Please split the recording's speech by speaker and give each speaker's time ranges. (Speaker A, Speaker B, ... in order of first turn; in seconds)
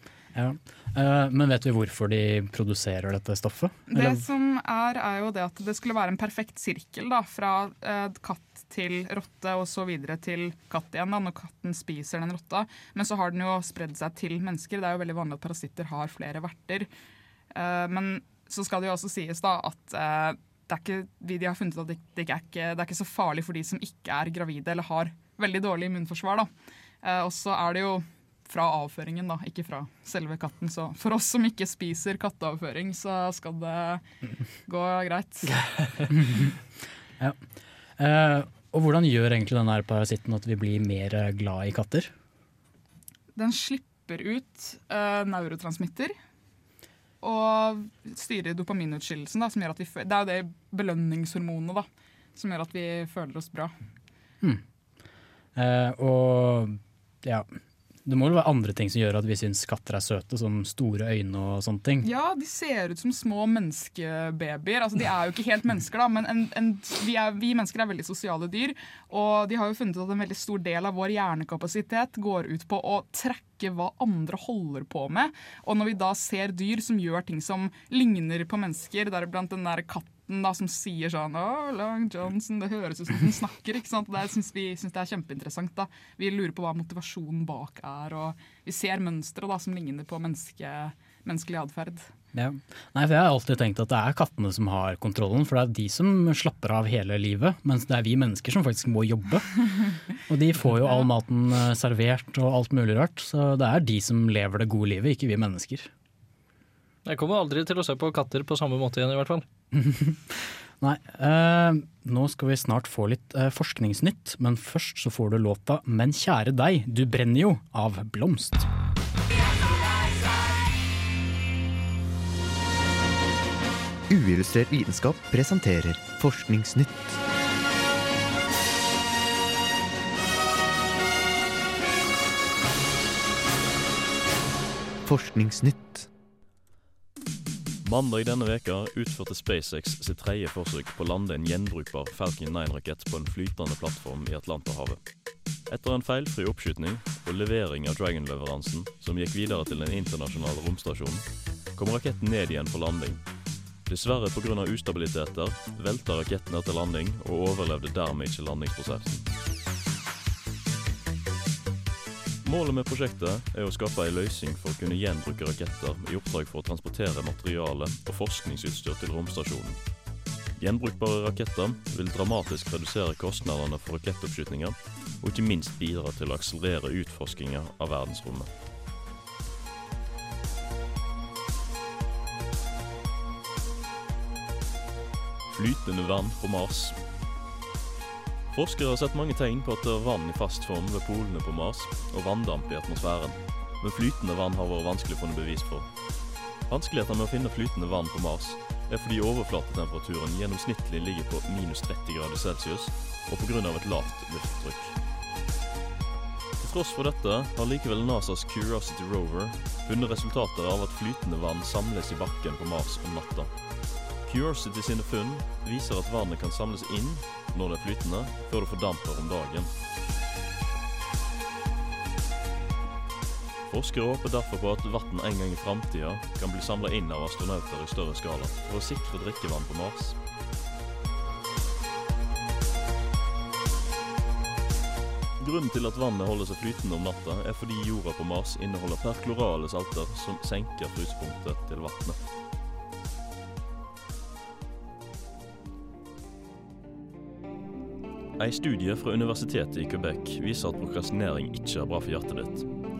Speaker A: 0.3-4.2, 36.1-36.6, 38.0-42.1, 55.5-57.5, 58.0-62.1, 92.3-105.9, 109.7-118.7
Speaker B: 3.9-16.9, 17.5-26.5, 27.0-34.0, 34.6-35.6, 43.4-46.1, 47.2-53.7, 62.0-92.1
Speaker C: 107.1-109.4
Speaker D: 124.1-127.2, 135.0-136.1
Speaker E: 137.8-145.0, 145.7-153.2, 153.9-159.3, 162.4-169.8, 170.6-178.5, 185.5-187.0, 188.5-195.9, 196.7-204.9, 206.6-213.5, 214.2-219.7, 223.7-230.2, 235.4-242.2, 248.4-252.7